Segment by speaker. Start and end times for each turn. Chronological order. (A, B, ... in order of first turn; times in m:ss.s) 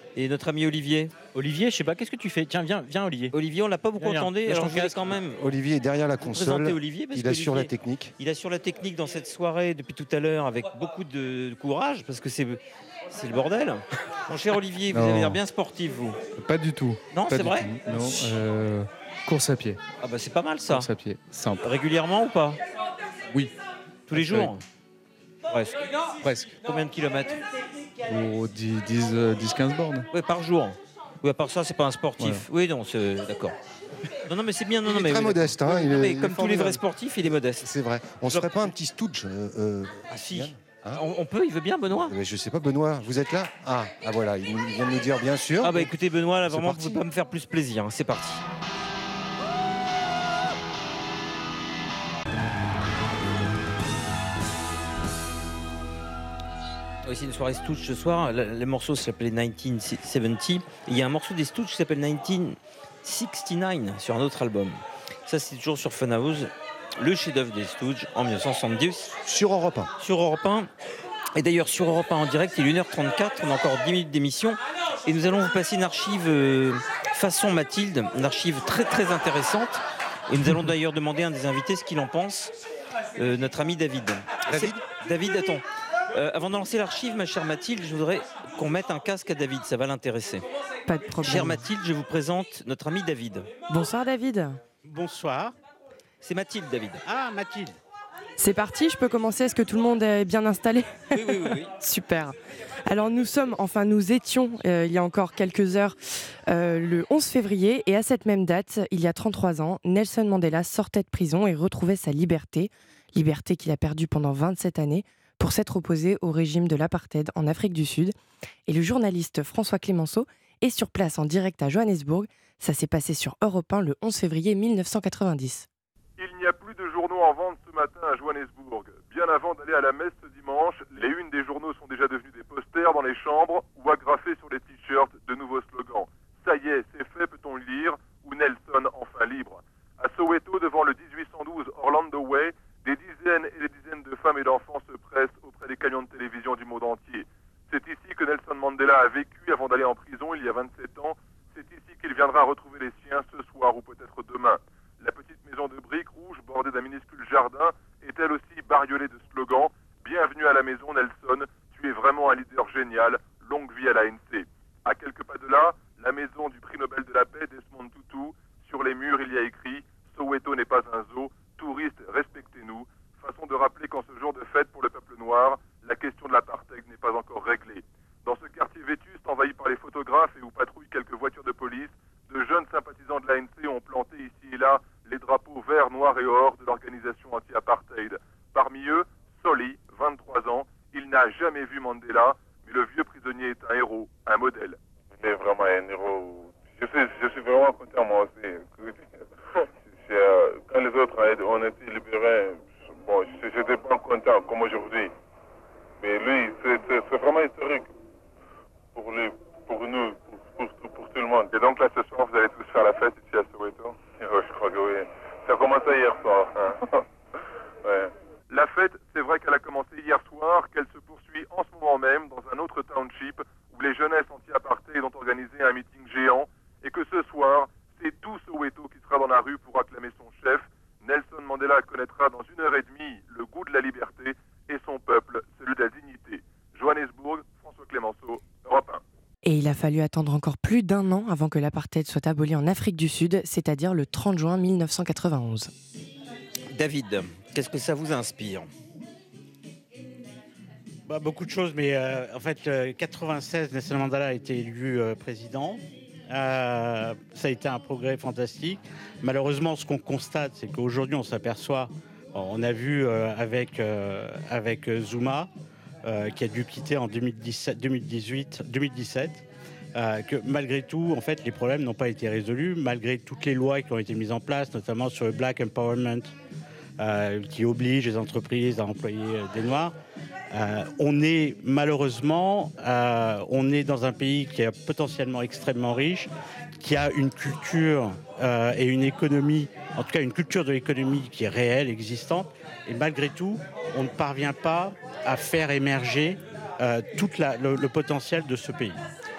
0:00.2-0:01.1 A
0:01.3-0:03.4 B
0:03.3-0:05.4 A
0:04.0-0:05.2 B
0:05.4-0:08.1 C
0:06.2-0:16.2 A
0:14.9-0:15.4 D
0:16.4-0:19.8 D
0:17.1-0:18.4 A
0:20.0-0:20.9 A
0:20.7-0:21.6 D
0:21.6-0:22.6 A
0:24.1-0:24.6 A
0:24.2-0:24.4 D
0:25.5-0:25.8 A
0:26.2-0:26.5 D
0:26.6-0:27.4 A
0:28.1-0:30.1 D
0:30.1-0:33.6 A
0:32.2-0:32.5 D
0:34.3-0:37.7 A
0:34.8-0:36.8 C
0:37.6-0:41.0 C
0:38.3-0:38.7 A
0:40.1-0:42.2 A
0:42.0-0:45.9 C
0:45.6-0:48.4 A
0:46.5-0:47.0 C
0:57.0-1:09.1 A
1:09.2-1:09.9 C
1:10.0-1:10.7 A
1:11.4-1:22.6 A
1:23.2-1:30.4 A
1:24.5-1:24.8 C
1:30.9-1:31.6 E
1:31.2-1:33.5 A
1:33.7-1:34.6 E
1:34.8-1:35.6 F
1:36.2-1:37.0 A
1:37.0-1:37.8 F
1:38.4-1:58.2 E
1:41.1-1:41.7 A
1:58.7-2:05.7 E
2:06.2-3:14.8 G
3:15.2-3:19.1 H
3:20.0-3:25.1 H
3:26.0-3:27.9 H
3:29.0-3:37.0 H
3:37.8-3:38.1 H
3:38.5-3:59.0 G
3:59.4-4:05.7 E
4:06.7-4:08.7 A
4:11.1-4:25.5 F
4:26.0-4:36.3 F
4:37.0-4:40.0 F
4:40.5-4:59.0 F